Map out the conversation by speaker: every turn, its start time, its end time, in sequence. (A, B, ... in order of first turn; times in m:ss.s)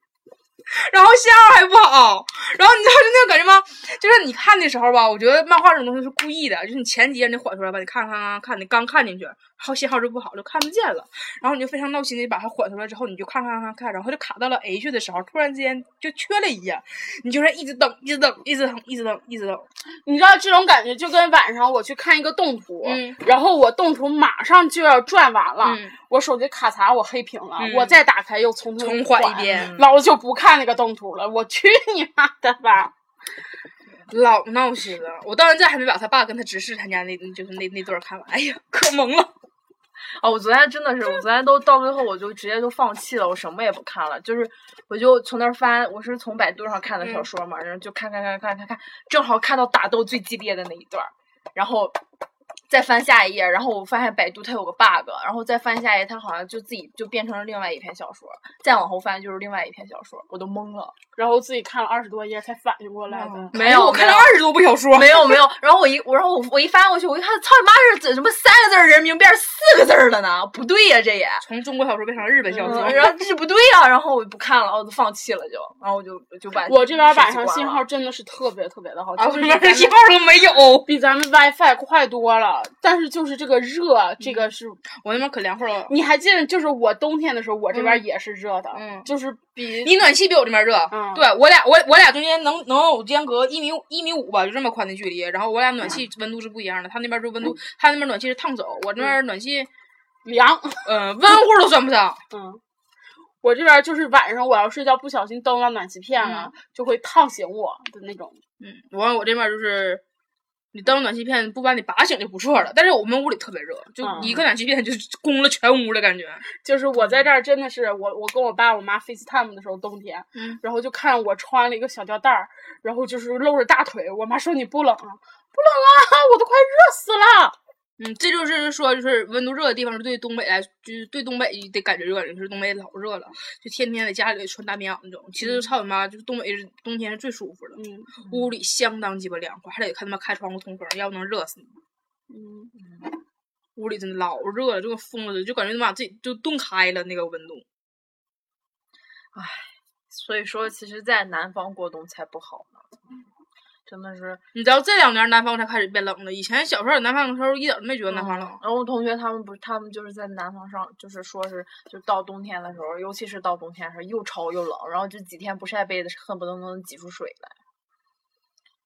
0:00.7-0:19.7 A
0:20.0-0:32.9 B
0:22.8-0:23.2 A
0:25.6-0:25.9 A
0:27.6-0:27.9 A
0:28.8-0:29.8 A
0:34.1-0:39.3 A
0:40.2-0:52.0 C
0:47.0-0:47.3 A
0:52.7-1:01.0 C
1:01.2-1:03.5 B
1:03.1-1:05.4 A
1:03.5-1:11.4 C
1:11.4-1:13.2 A
1:12.5-1:13.1 B
1:12.6-1:17.8 C
1:16.7-1:20.0 B
1:19.2-1:20.9 A
1:20.8-1:24.8 B
1:24.2-1:25.9 A
1:25.9-1:29.9 B
1:27.7-1:28.0 A
1:28.7-1:29.1 A
1:29.8-1:39.7 A
1:30.9-1:31.2 B
1:40.2-1:40.8 B
1:40.8-1:42.2 A
1:42.3-1:42.6 B
1:43.4-1:48.4 B
1:46.2-1:46.5 A
1:48.6-1:50.0 A
1:50.7-1:56.4 A
1:54.0-1:54.4 B
1:56.5-2:07.6 B
2:00.3-2:00.6 A
2:08.0-2:21.8 A
2:15.4-2:15.7 B
2:17.8-2:18.1 B
2:18.3-2:18.5 C
2:22.3-2:22.7 B
2:23.8-2:27.6 A
2:29.3-2:32.9 C
2:33.9-2:34.4 C
2:34.5-2:38.6 A
2:38.1-2:47.6 C